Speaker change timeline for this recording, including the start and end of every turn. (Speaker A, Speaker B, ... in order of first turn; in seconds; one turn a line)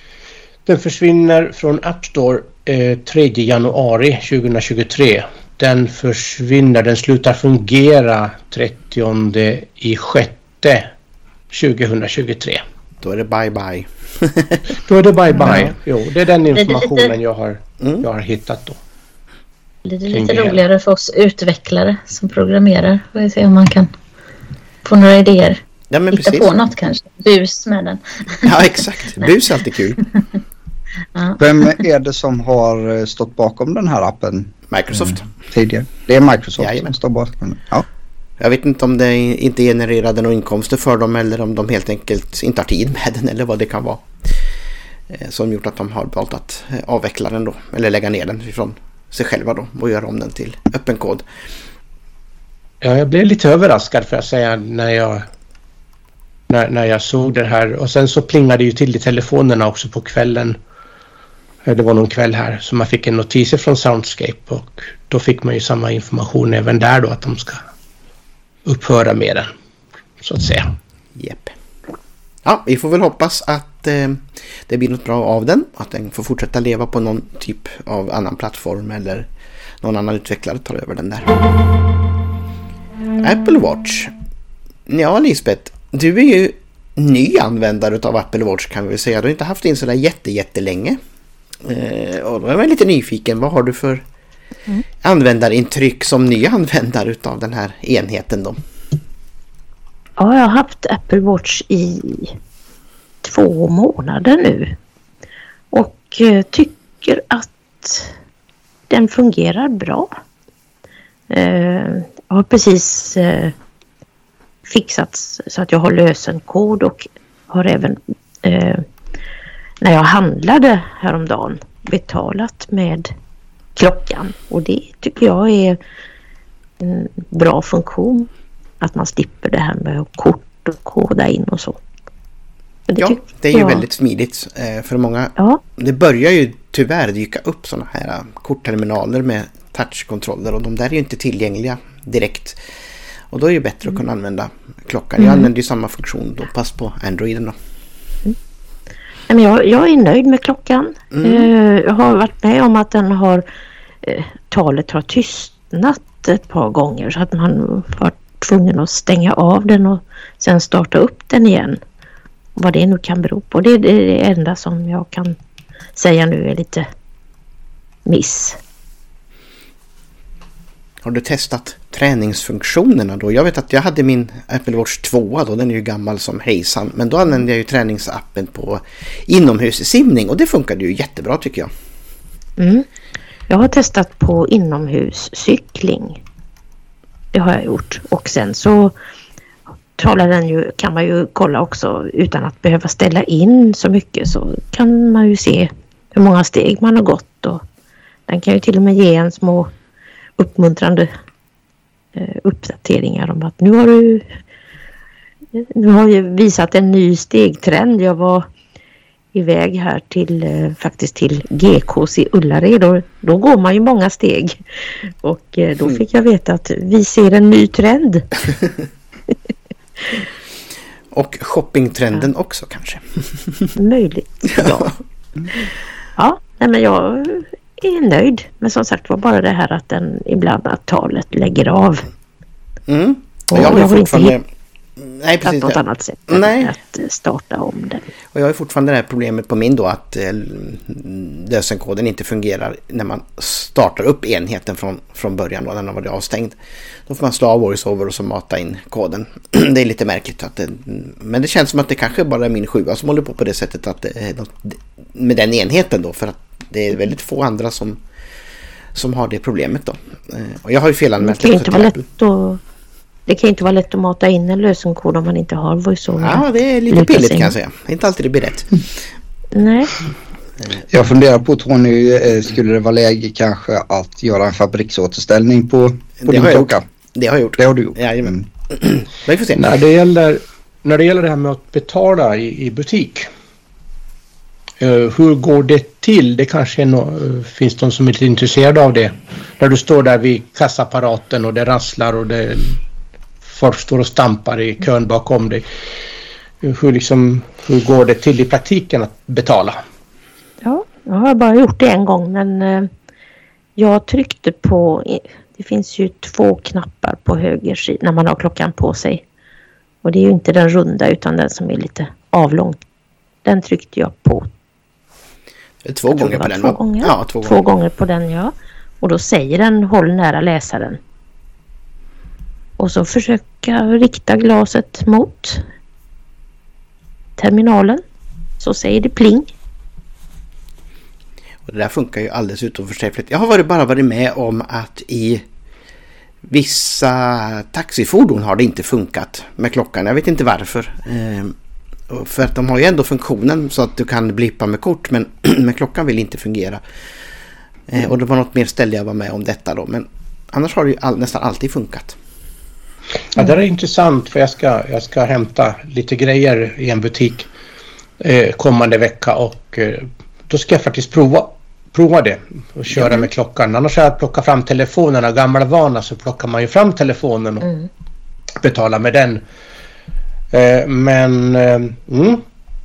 Speaker A: 0.7-10.9
Speaker A: 11.5-12.6
Speaker B: 13.0-14.6
Speaker A: 14.8-18.8
Speaker C: 16.5-17.1
Speaker B: 17.8-18.1
Speaker C: 19.9-23.9
Speaker A: 20.1-20.6
Speaker C: 24.8-25.6
Speaker B: 25.9-26.5
Speaker C: 26.1-28.6
Speaker B: 28.4-30.0
Speaker D: 31.4-37.9
Speaker B: 34.7-35.3
Speaker B: 36.6-36.9
Speaker B: 38.4-44.1
Speaker B: 45.1-51.2
Speaker A: 52.8-55.2
Speaker A: 56.5-60.6
Speaker A: 61.6-67.6
Speaker A: 68.7-69.5
Speaker A: 70.2-70.7
Speaker B: 71.2-71.5
Speaker B: 72.5-79.3
Speaker B: 79.8-81.3
Speaker B: 83.2-84.1
Speaker B: 84.9-91.0
Speaker B: 91.6-94.0
Speaker B: 95.0-98.6
Speaker E: 100.2-102.4
Speaker E: 103.2-104.8
Speaker E: 105.7-108.1
Speaker E: 108.9-110.1
Speaker E: 111.3-113.5
Speaker E: 114.7-118.8
Speaker E: 119.8-123.1
Speaker E: 123.8-125.8
Speaker E: 126.8-128.3
Speaker E: 128.8-131.8
Speaker E: 132.9-133.8
Speaker B: 133.0-142.6
Speaker E: 135.4-135.6
Speaker B: 143.3-147.6
Speaker E: 145.2-145.5
Speaker E: 149.3-153.5
Speaker B: 151.1-151.5
Speaker E: 154.0-161.8
Speaker E: 162.6-165.4
Speaker E: 166.0-166.9
Speaker E: 168.1-168.6
Speaker B: 171.0-181.7
Speaker E: 182.6-182.9
Speaker E: 183.5-186.2
Speaker E: 187.3-188.9
Speaker E: 190.0-197.6
Speaker E: 198.3-199.7
Speaker E: 200.4-201.1
Speaker E: 202.2-204.3
Speaker E: 205.5-208.5
Speaker E: 209.3-214.6
Speaker E: 215.2-218.5
Speaker B: 221.1-223.7
Speaker E: 223.8-225.0
Speaker B: 224.5-224.9
Speaker E: 226.2-232.1
Speaker B: 232.9-234.4
Speaker E: 233.5-234.4
Speaker B: 235.0-236.7
Speaker E: 235.4-238.0
Speaker B: 238.3-246.6
Speaker B: 247.1-258.0
Speaker B: 258.9-262.1
Speaker E: 261.2-262.6
Speaker E: 263.3-267.5
Speaker B: 266.2-268.8
Speaker E: 269.5-269.9
Speaker D: 270.9-276.8
Speaker B: 276.2-279.8
Speaker D: 277.6-278.4
Speaker A: 279.6-283.3
Speaker A: 284.8-292.8
Speaker A: 293.5-295.6
Speaker A: 296.6-299.8
Speaker E: 300.6-302.9
Speaker E: 303.8-309.2
Speaker E: 310.0-312.8
Speaker E: 313.4-314.5
Speaker B: 315.8-317.6
Speaker E: 316.1-321.0
Speaker E: 322.8-325.6
Speaker E: 327.4-328.0
Speaker E: 328.6-329.5
Speaker B: 331.7-335.4
Speaker B: 336.5-341.6
Speaker B: 342.1-346.8
Speaker B: 347.9-352.2
Speaker A: 353.4-357.5
Speaker A: 358.2-367.7
Speaker A: 368.6-369.4
Speaker A: 370.5-372.4